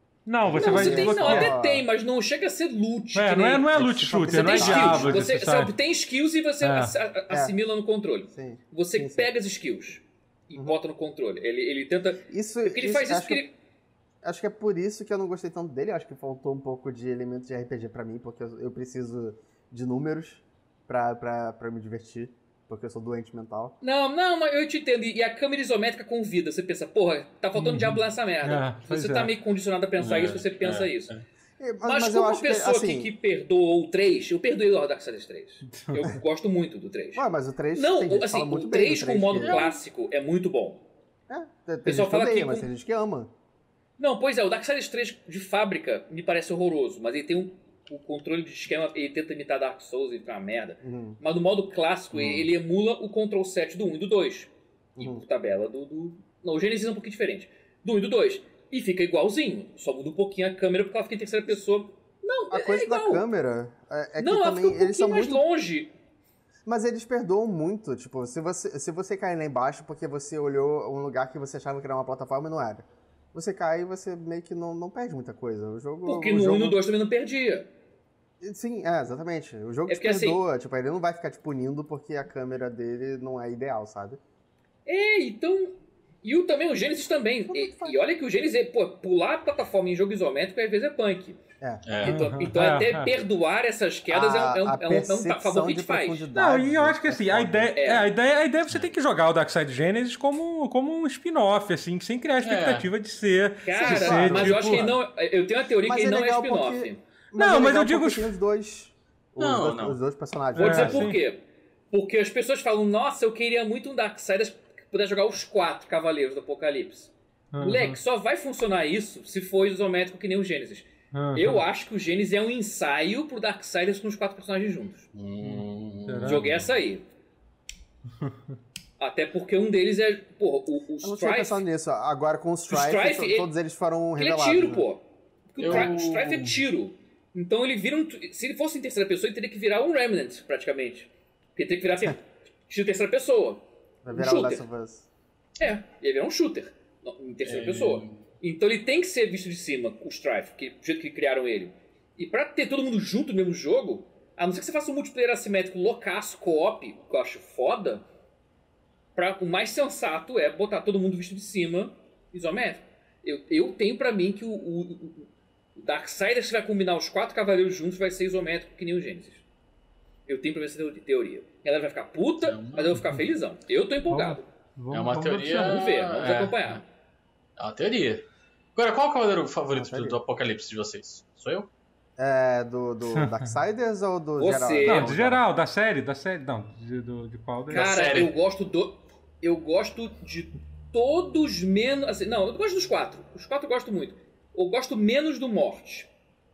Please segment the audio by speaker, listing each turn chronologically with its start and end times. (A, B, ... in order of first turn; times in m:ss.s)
0:00.2-0:01.5 A
0:00.4-0:01.8 B
0:00.5-0:03.7 C
0:03.1-0:05.7 A
0:03.7-0:05.3 B
0:04.2-0:13.5 C
0:06.6-0:06.9 A
0:08.3-0:09.3 B
0:12.3-0:13.4 B
0:14.2-0:23.8 B
0:23.8-0:31.1 C
0:27.5-0:29.3 A
0:30.0-0:31.2 D
0:31.6-0:33.1 B
0:31.8-0:37.2 C
0:35.7-0:36.0 A
0:37.1-0:39.7 B
0:37.7-0:40.8 C
0:39.4-0:39.7 D
0:41.3-0:43.3 B
0:41.8-0:42.7 C
0:44.0-1:03.2 C
0:50.8-0:51.2 B
0:55.0-0:55.2 B
1:02.5-1:05.4 B
1:04.2-1:05.9 C
1:06.6-1:16.8 B
1:16.0-1:17.7 C
1:18.4-1:24.2 B
1:19.9-1:20.4 C
1:24.8-1:31.4 C
1:27.5-1:28.0 B
1:31.8-1:32.3 D
1:32.0-1:33.1 A
1:32.0-1:36.3 C
1:34.1-1:37.7 B
1:36.3-1:44.9 A
1:37.8-1:38.1 C
1:42.4-1:42.9 D
1:43.6-1:47.0 C
1:43.7-1:45.0 B
1:45.8-1:51.0 B
1:47.3-1:48.3 A
1:49.4-1:50.0 D
1:50.5-1:51.4 C
1:50.6-1:51.2 A
1:51.9-2:05.1 C
1:57.5-1:58.0 A
2:01.1-2:01.6 A
2:05.1-2:06.7 D
2:05.4-2:06.6 A
2:06.2-2:07.0 C
2:09.0-2:11.6 C
2:11.0-2:14.8 B
2:12.7-2:13.5 C
2:14.2-2:24.6 C
2:15.6-2:16.6 D
2:24.0-2:25.0 B
2:25.6-2:38.0 C
2:27.4-2:28.2 D
2:39.1-2:49.4 C
2:50.3-2:54.4 C
2:52.4-2:53.0 D
2:54.1-2:55.8 A
2:54.9-2:56.8 D
2:55.6-2:56.8 C
2:57.6-3:01.7 D
2:59.7-3:00.2 B
3:02.2-3:05.4 B
3:03.1-3:03.5 A
3:04.4-3:05.1 C
3:04.8-3:07.9 A
3:07.7-3:08.3 D
3:07.7-3:16.1 C